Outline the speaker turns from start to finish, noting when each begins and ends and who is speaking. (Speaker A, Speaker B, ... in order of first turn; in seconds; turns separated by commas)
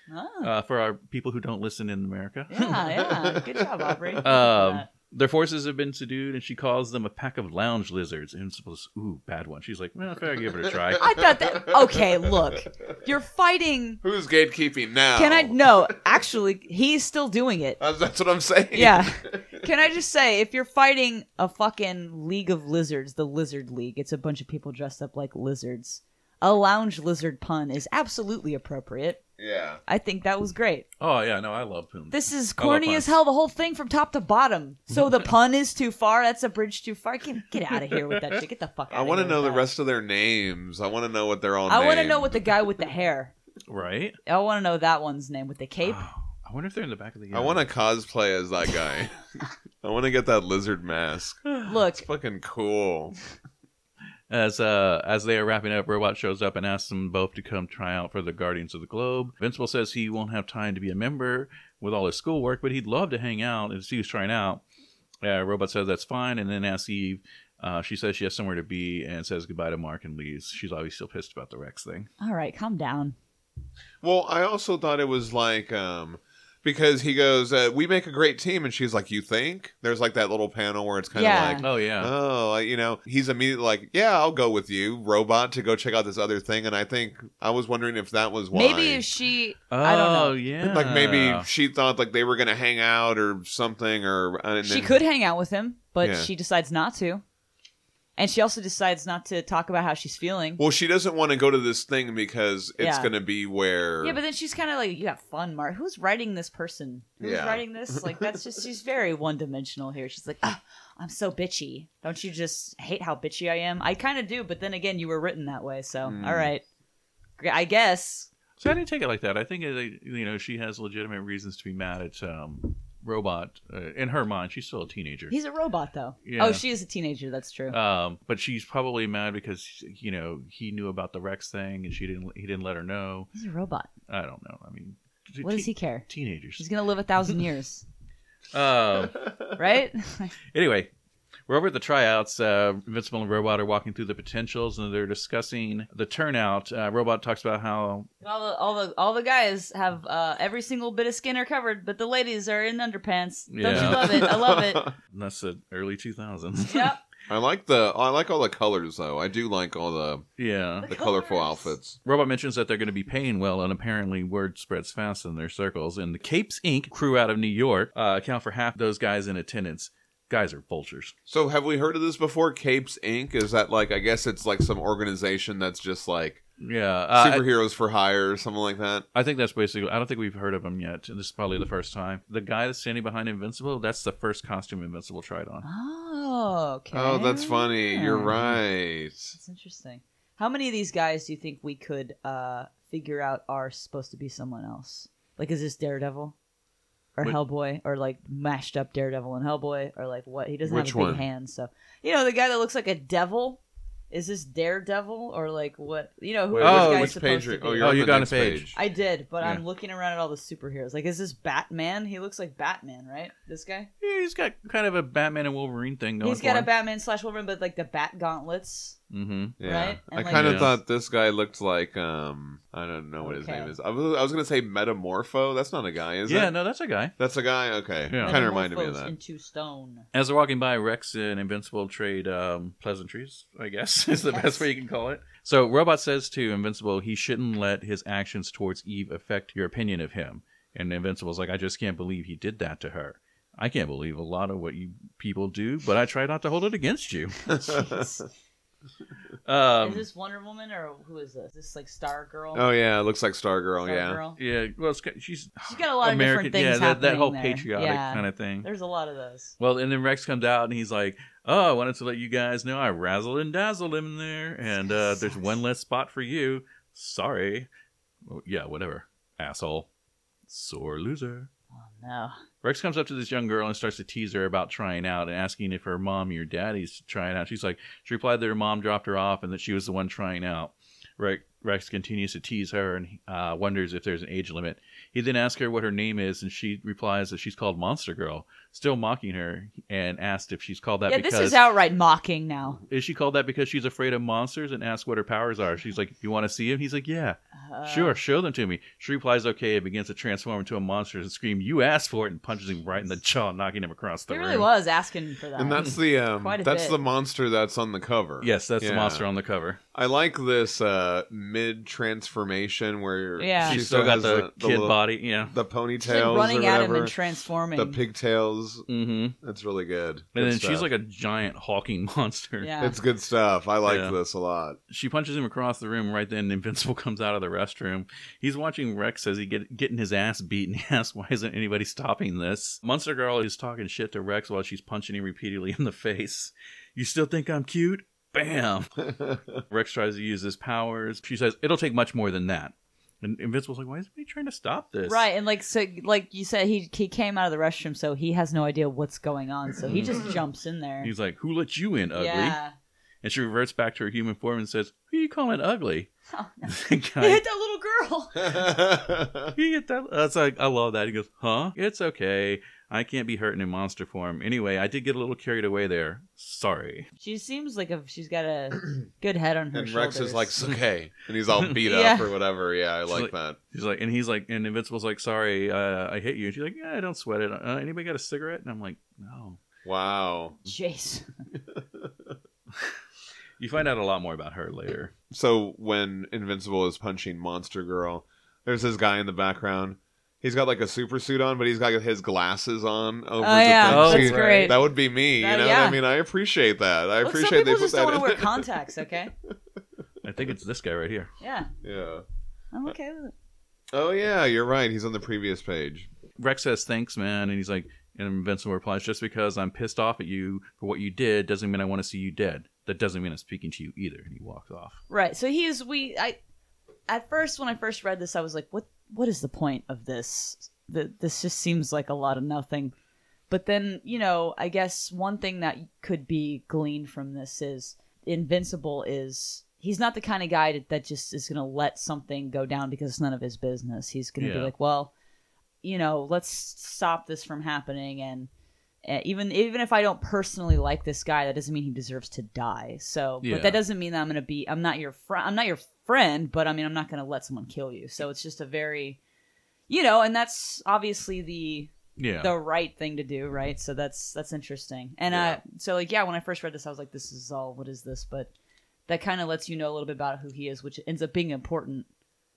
Speaker A: 0.1-0.5, Speaker B: 0.4-3.0, Speaker A: 2.5-4.9, Speaker C: 3.3-4.2, Speaker B: 4.2-11.1, Speaker C: 10.5-12.3, Speaker A: 11.0-14.0, Speaker C: 14.0-15.9, Speaker A: 15.2-17.8, Speaker C: 17.8-19.6, Speaker A: 18.7-29.2, Speaker C: 29.4-29.8, Speaker A: 29.9-30.9, Speaker B: 31.0-33.1, Speaker A: 32.1-39.7, Speaker C: 38.9-42.4, Speaker A: 41.7-43.3, Speaker B: 43.7-44.2, Speaker A: 44.3-46.0, Speaker B: 45.8-47.6, Speaker C: 47.3-49.2, Speaker C: 49.8-53.1, Speaker A: 51.6-52.1, Speaker B: 54.3-64.6, Speaker B: 65.2-72.1, Speaker A: 72.2-73.2, Speaker C: 74.0-89.0, Speaker A: 81.2-81.7, Speaker B: 81.6-82.1, Speaker A: 88.5-90.4, Speaker B: 89.7-91.5, Speaker C: 90.6-95.0, Speaker A: 94.6-97.2, Speaker C: 96.0-96.3, Speaker A: 98.2-100.6, Speaker C: 100.6-104.2, Speaker A: 102.8-103.1, Speaker A: 104.0-116.6, Speaker C: 107.2-108.4, Speaker C: 116.0-116.5, Speaker A: 117.4-118.3, Speaker B: 118.6-125.3, Speaker A: 125.3-127.8, Speaker B: 126.2-126.6, Speaker B: 127.7-133.3, Speaker A: 133.3-133.9, Speaker B: 134.1-136.7, Speaker A: 135.4-136.1, Speaker A: 136.6-137.8, Speaker B: 138.5-139.2, Speaker A: 139.6-140.3, Speaker B: 140.5-140.9, Speaker B: 141.5-148.1, Speaker A: 148.2-154.9, Speaker B: 153.5-154.4, Speaker C: 153.7-154.9, Speaker B: 155.1-156.9, Speaker A: 156.6-157.0, Speaker C: 157.3-160.2, Speaker B: 160.4-160.9, Speaker A: 160.8-161.8, Speaker C: 160.8-162.0, Speaker B: 162.1-171.1, Speaker C: 171.3-176.4, Speaker B: 176.6-177.5, Speaker C: 177.1-179.1, Speaker B: 179.2-185.7, Speaker A: 185.6-188.3, Speaker C: 186.9-189.4, Speaker A: 189.3-196.3, Speaker A: 197.2-203.6, Speaker C: 200.6-201.2, Speaker A: 204.1-208.0, Speaker C: 206.5-208.8, Speaker B: 206.6-207.2, Speaker B: 207.8-208.7, Speaker A: 208.8-213.9, Speaker B: 214.0-216.7, Speaker A: 216.2-219.0, Speaker B: 219.1-219.6, Speaker C: 219.6-226.5, Speaker A: 219.6-220.8, Speaker B: 220.3-220.8, Speaker A: 223.2-223.7, Speaker B: 226.3-227.2, Speaker C: 227.2-229.1, Speaker B: 228.1-228.4, Speaker A: 228.2-230.1, Speaker B: 230.1-247.6, Speaker A: 234.3-234.6, Speaker A: 247.6-248.3, Speaker C: 247.6-248.0, Speaker B: 249.4-250.1, Speaker A: 249.8-252.7, Speaker C: 252.5-254.2, Speaker A: 253.8-254.4, Speaker B: 254.4-258.7, Speaker A: 255.7-259.5, Speaker B: 259.6-267.7, Speaker A: 264.7-265.6, Speaker B: 268.3-269.9, Speaker B: 270.5-271.5, Speaker A: 271.7-272.4, Speaker B: 272.6-291.6, Speaker A: 291.1-292.8, Speaker B: 292.9-304.7, Speaker A: 297.6-298.2, Speaker A: 304.3-307.0, Speaker C: 305.6-309.2, Speaker B: 308.4-309.8, Speaker C: 309.9-317.1, Speaker A: 313.4-313.8, Speaker B: 313.6-315.6, Speaker A: 316.0-318.0, Speaker C: 317.8-318.9, Speaker B: 318.9-319.4, Speaker C: 319.4-320.9, Speaker B: 320.4-322.7, Speaker A: 322.6-323.0, Speaker C: 322.8-324.8, Speaker B: 323.9-324.2, Speaker B: 324.9-339.1, Speaker B: 339.7-345.3, Speaker A: 345.1-351.1, Speaker B: 349.9-350.4, Speaker B: 351.0-352.6, Speaker A: 352.1-352.7, Speaker B: 353.2-356.1, Speaker A: 356.3-358.8, Speaker B: 356.7-357.4, Speaker C: 358.4-359.5, Speaker B: 359.5-367.1, Speaker A: 367.2-370.5, Speaker C: 369.7-373.6, Speaker A: 371.9-372.3, Speaker B: 373.1-379.6, Speaker C: 379.9-380.6, Speaker A: 380.7-381.3, Speaker C: 381.7-382.1, Speaker B: 383.6-385.1, Speaker C: 385.3-398.7, Speaker A: 393.4-394.8, Speaker B: 393.9-394.8, Speaker A: 395.4-396.0, Speaker A: 397.2-399.3, Speaker B: 400.2-401.3, Speaker A: 401.4-401.7, Speaker C: 401.8-402.2, Speaker A: 402.7-403.3, Speaker C: 403.9-406.1, Speaker B: 406.4-415.0, Speaker A: 415.1-416.4, Speaker A: 417.1-422.9, Speaker A: 423.5-435.1, Speaker B: 434.4-434.7, Speaker A: 435.8-438.5, Speaker A: 439.0-449.2, Speaker B: 443.4-443.8, Speaker A: 449.9-458.5, Speaker B: 452.2-452.5, Speaker C: 455.3-455.6, Speaker A: 459.1-462.1